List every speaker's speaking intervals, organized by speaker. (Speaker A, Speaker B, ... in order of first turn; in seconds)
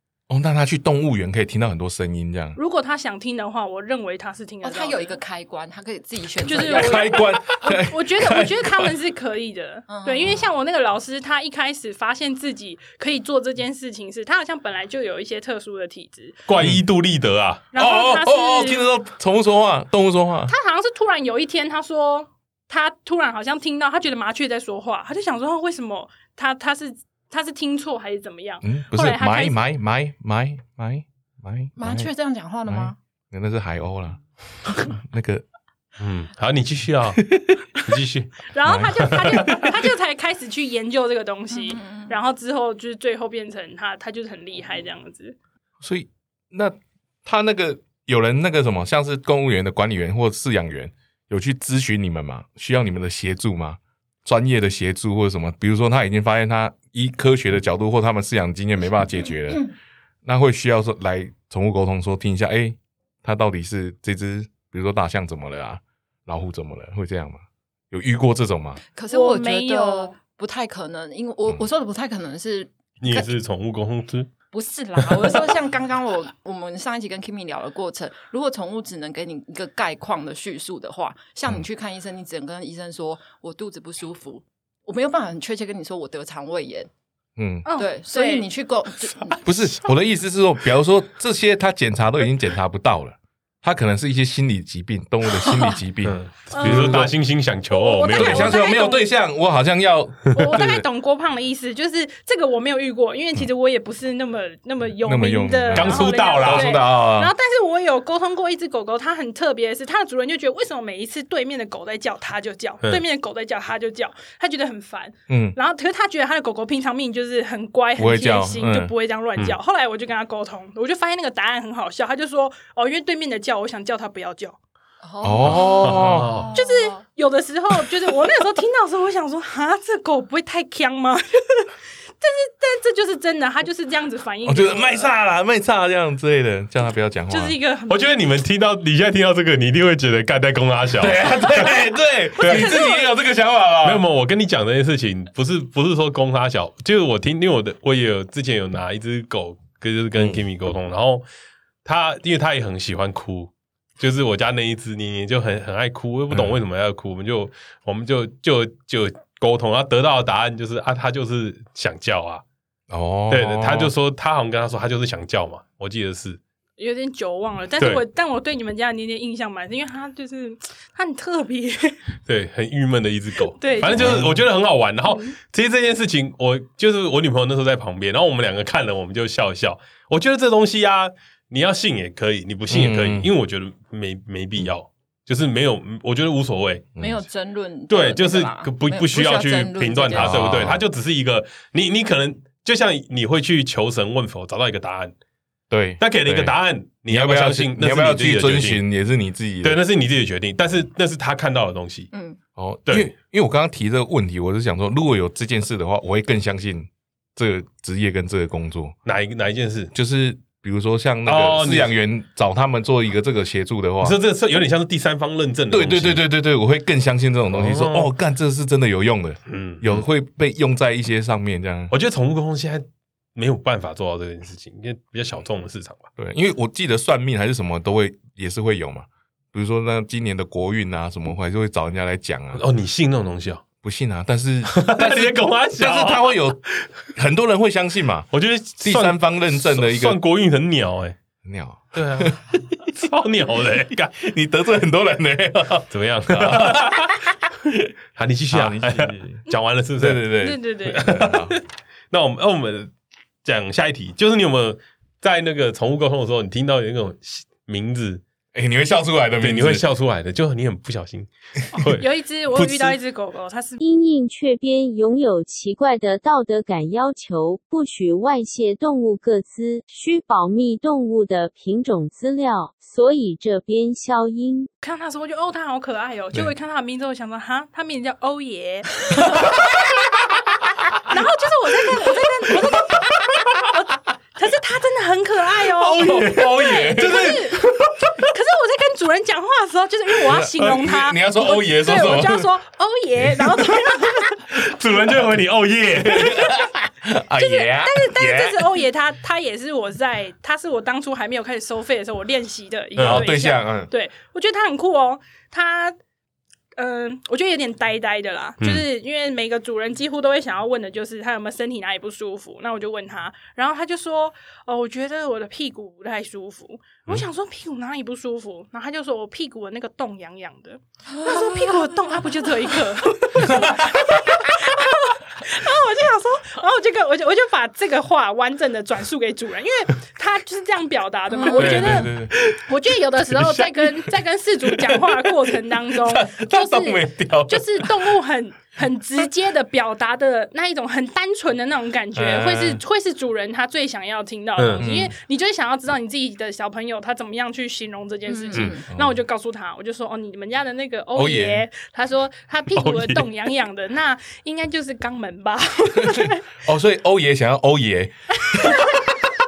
Speaker A: 0.3-2.6, 6.5-8.9, 16.6-16.8, 17.7-20.5, 28.6-32.1, 32.7-35.5, 37.2-38.0, 38.6-39.7, 45.8-59.7, 60.2-67.4, 67.9-68.8, 87.4-87.7, 89.4-97.1, 98.1-100.8, 105.0-107.3, 115.3-115.6, 118.0-118.9, 125.2-126.3, 134.4-137.6, 141.0-144.0, 162.9-163.9, 173.9-174.4, 182.7-183.3, 187.0-187.2, 190.2-190.8, 195.7-196.6, 197.1-199.8, 202.6-209.0, 209.9-214.2, 215.7-221.9, 226.2-232.6, 233.8-238.3, 238.8-240.2, 241.4-242.6, 244.2-247.8, 248.5-249.4, 250.0-251.6, 258.5-259.9, 279.3-279.8, 285.7-287.7, 290.2-292.5, 296.0-298.7, 303.0-303.9, 323.4-324.4, 331.5-332.4, 336.1-337.8, 342.1-342.8, 344.8-345.1, 348.9-349.1, 351.1-351.7, 356.0-359.0
Speaker B: 2.6-5.2, 6.4-16.4, 17.7-18.9, 20.5-29.6, 38.5-45.4, 69.1-70.2, 87.7-88.5, 96.5-97.1, 97.7-99.1, 100.3-124.6, 126.5-135.1, 137.3-138.1, 142.4-143.1, 166.8-172.0, 173.6-174.2, 250.4-251.2, 261.7-263.8, 274.8-280.0, 281.0-287.7, 288.2-294.4, 297.4-306.0, 306.8-356.5, 358.4-359.1
Speaker C: 4.6-7.2, 9.9-10.4, 31.8-33.0, 41.5-42.1, 69.0-73.3, 74.5-86.9, 87.8-89.4, 125.0-127.0, 187.0-190.7, 202.1-202.4, 321.2-322.3, 331.3-331.8, 348.3-348.9
Speaker D: 16.5-17.7, 36.0-38.5, 39.0-39.6, 73.0-74.3, 75.0-75.4, 96.0-98.5, 105.8-106.8, 125.4-126.5, 137.9-141.8, 142.4-142.8, 143.8-151.2, 151.8-162.4, 163.3-166.4, 167.8-168.0, 172.3-186.9, 187.9-195.1, 196.0-198.8, 199.6-202.1, 209.1-209.9, 211.3-211.9, 214.0-216.2, 217.5-218.1, 219.5-220.1, 221.9-222.8, 223.4-226.1, 232.6-233.7, 234.7-236.9, 238.3-241.2, 241.9-244.2, 245.9-247.2, 248.2-250.3, 250.8-252.9, 253.4-258.2, 259.4-263.0, 286.0-287.9, 294.5-296.5, 303.0-303.3, 308.6-308.9, 331.6-332.6, 333.4-333.7, 344.6-344.9, 352.8-353.3
Speaker E: 263.8-274.7